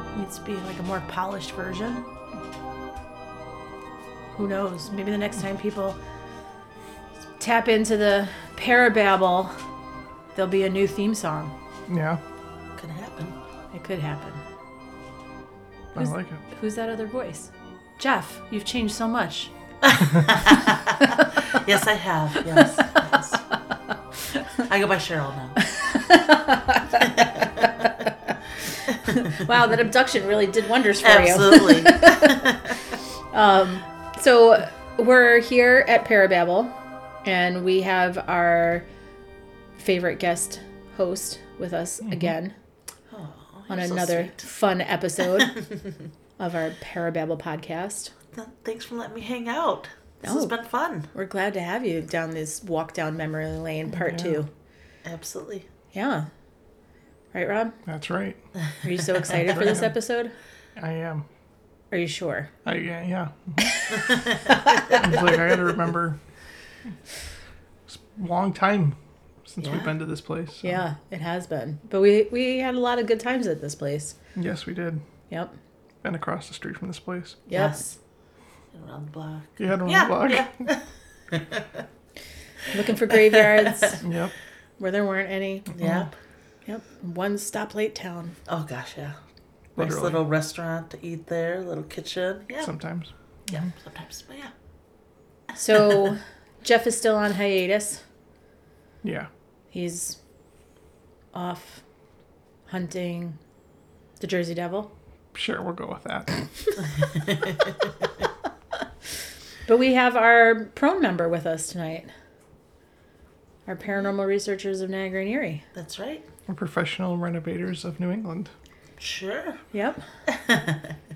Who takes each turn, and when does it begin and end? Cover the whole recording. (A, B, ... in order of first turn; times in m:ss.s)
0:00.1-0:02.0 A
0:04.3-0:06.0 A
0:07.4-0:09.6 A
0:10.3-0:11.5 A
0:11.9-0:12.2 B
0:12.8-0:13.3 C
0:13.7-0:14.4 A
0:15.9-0:16.4 B
0:16.0-0:19.5 A
0:19.8-0:23.4 C
0:22.5-0:22.9 A
0:24.7-0:25.6 C
0:25.6-0:28.3 A
0:27.1-0:27.7 C
0:29.0-0:32.7 A
0:31.0-0:32.7 C
0:33.3-0:38.8 A
0:39.8-0:42.5 A
0:42.0-0:42.3 B
0:43.1-0:44.5 C
0:43.7-0:45.6 A
0:46.4-0:48.1 A
0:48.3-0:51.1 C
0:50.2-0:50.6 A
0:51.1-0:54.5 A
0:53.9-0:54.4 B
0:55.0-0:55.7 C
0:55.9-0:56.3 A
0:57.3-0:57.8 A
0:57.8-0:58.4 B
0:58.8-1:00.3 A
0:59.3-0:59.9 B
1:00.8-1:01.2 B
1:01.9-1:02.5 A
1:02.6-1:03.7 B
1:03.7-1:04.9 A
1:04.9-1:06.2 B
1:07.9-1:10.8 B
1:09.6-1:09.9 C
1:10.6-1:14.1 A
1:14.3-1:15.0 B
1:16.0-1:17.4 B
1:17.5-1:17.9 A
1:17.5-1:17.9 C
1:18.7-1:21.8 C
1:19.6-1:20.7 B
1:22.7-1:24.0 A
1:23.5-1:23.9 C
1:24.0-1:24.3 B
1:24.8-1:25.7 A
1:25.8-1:26.1 C
1:25.8-1:26.1 B
1:26.6-1:28.4 A
1:28.5-1:29.2 C
1:29.7-1:32.7 C
1:29.8-1:30.2 B
1:32.6-1:33.7 B
1:33.5-1:34.5 C
1:35.6-1:38.0 A
1:39.0-1:39.3 B
1:39.7-1:40.2 A
1:41.3-1:41.8 A
1:42.7-1:43.4 A
1:44.2-1:44.9 A
1:45.3-1:46.3 B
1:47.3-1:47.6 C
1:49.6-1:52.1 A
1:53.6-1:55.6 A
1:55.7-1:56.2 C
1:56.5-1:58.5 B
1:59.0-1:59.6 C
1:59.7-2:00.0 A
2:00.3-2:00.9 C